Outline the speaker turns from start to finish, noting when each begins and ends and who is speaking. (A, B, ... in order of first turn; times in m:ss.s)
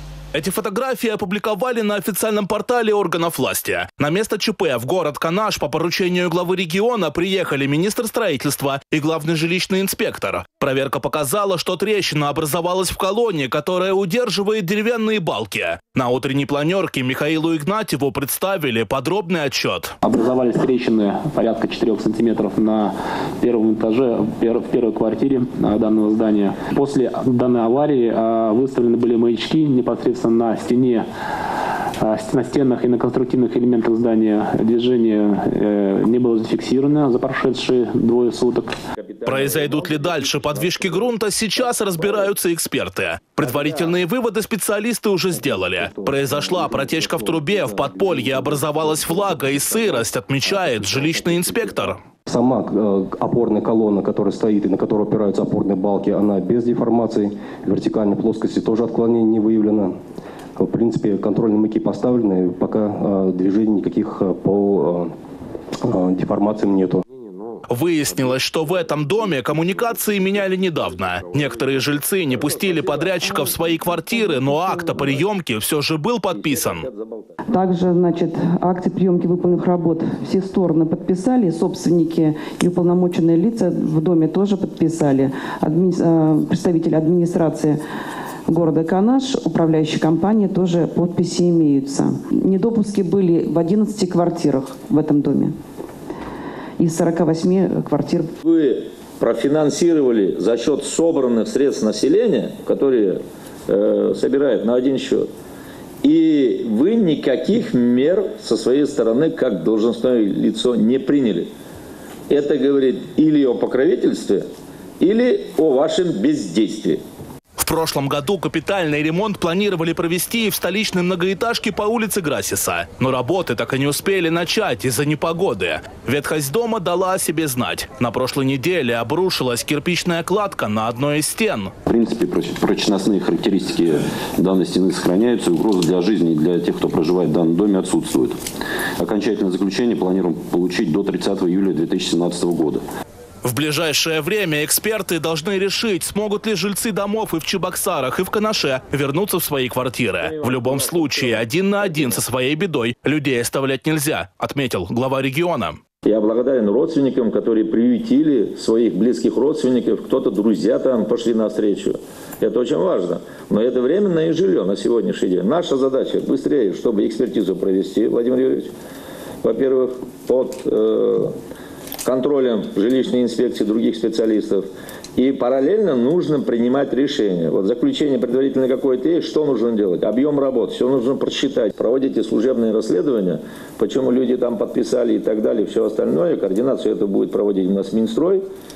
0:00.3-0:19.9 A
0:20.0-0:31.0 B
0:32.0-0:38.7 B
0:39.0-0:41.1 C
0:39.2-0:52.0 A
0:41.6-0:42.3 C
0:45.3-0:50.0 D
0:51.0-0:51.3 D
0:52.2-0:59.9 D
1:00.6-1:05.1 D
1:05.8-1:07.0 D
1:07.7-1:16.9 A
1:12.5-1:13.1 C
1:16.3-1:17.4 C
1:17.5-1:27.8 E
1:28.5-1:35.5 E
1:36.8-1:38.3 E
1:38.4-1:45.3 C
1:46.0-1:51.5 C
1:52.3-1:54.4 C
1:55.0-1:57.0 C
1:57.6-2:11.7 A
2:11.9-2:18.4 F
2:19.0-2:22.8 F
2:23.4-2:35.8 A
2:30.2-2:32.2 C
2:36.0-2:48.7 C
2:49.4-2:51.3 C
2:52.0-3:08.4 C